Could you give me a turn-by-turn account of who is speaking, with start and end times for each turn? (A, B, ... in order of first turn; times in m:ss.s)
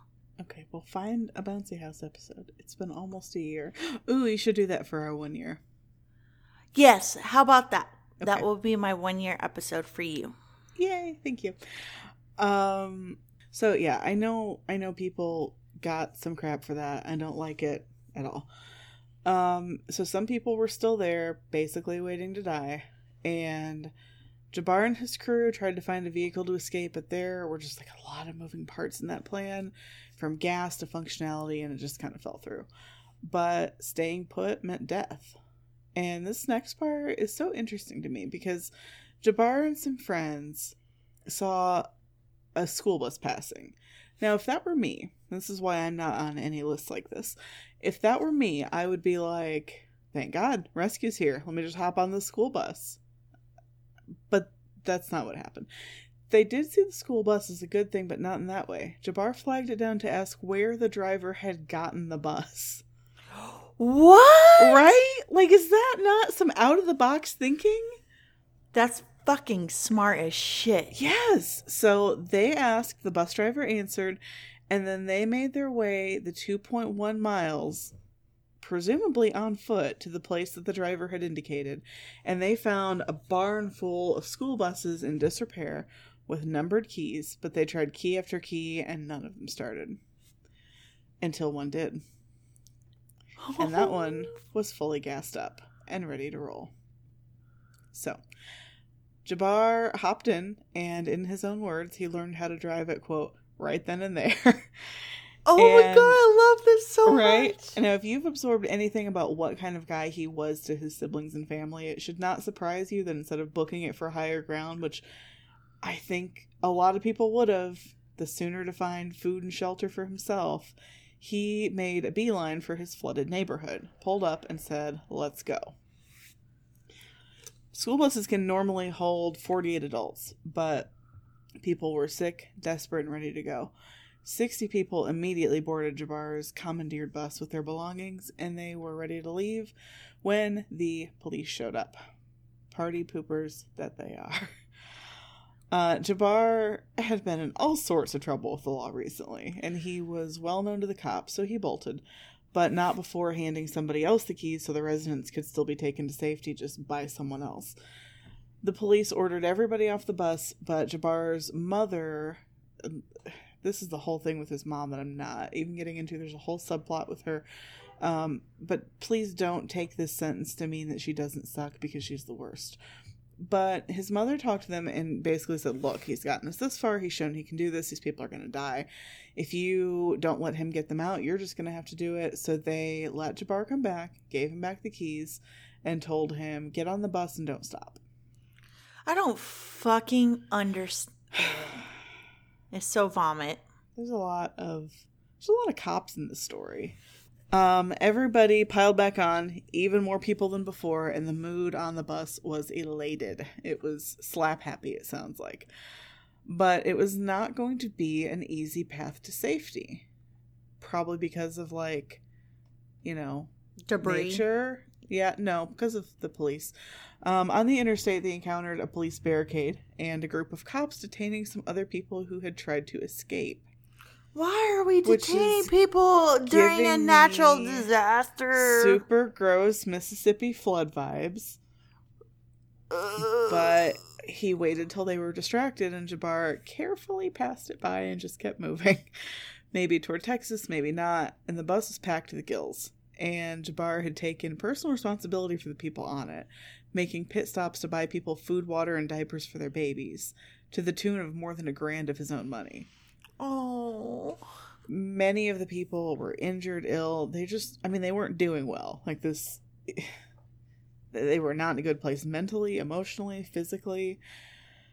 0:00.4-0:05.6 A
0:06.8-0:10.3 B
0:08.2-0:08.5 A
0:10.8-0:11.6 A
0:12.4-0:18.5 A
0:19.2-0:23.9 A
0:24.5-0:32.7 A
0:33.2-0:35.4 A
0:36.0-0:40.8 A
0:41.3-0:41.9 A
0:42.6-0:53.0 A
0:54.3-0:55.7 A
0:56.3-1:02.8 A
1:03.4-1:05.0 B
1:04.6-1:08.0 A
1:08.7-1:11.0 B
1:10.9-1:17.9 A
1:18.6-1:30.0 A
1:31.2-1:32.0 A
1:33.4-1:34.4 B
1:33.6-1:36.7 A
1:37.9-1:38.2 A
1:39.2-1:46.2 A
1:45.5-1:47.8 B
1:47.1-1:55.0 A
1:55.8-2:05.8 A
2:07.7-2:10.9 A
2:11.6-2:13.7 A
2:14.2-2:22.0 A
2:22.7-2:24.6 A
2:25.7-2:37.8 A
2:38.6-2:47.4 A
2:48.0-2:52.8 A
2:53.4-3:08.0 A
3:09.1-3:11.8 B
3:11.4-3:11.8 A
3:12.7-3:13.6 B
3:14.0-3:17.0 A
3:17.5-3:25.7 A
3:26.5-3:30.1 A
3:30.8-3:32.2 A
3:33.0-3:33.5 A
3:33.9-3:34.4 B
3:34.0-3:43.6 A
3:44.4-3:49.0 B
3:45.0-3:45.7 A
3:46.5-3:47.9 A
3:48.6-3:51.6 A
3:52.9-3:53.8 B
3:53.4-3:59.1 A
3:59.7-4:12.9 A
4:13.4-4:14.4 B
4:14.9-4:20.2 A
4:21.1-4:24.2 A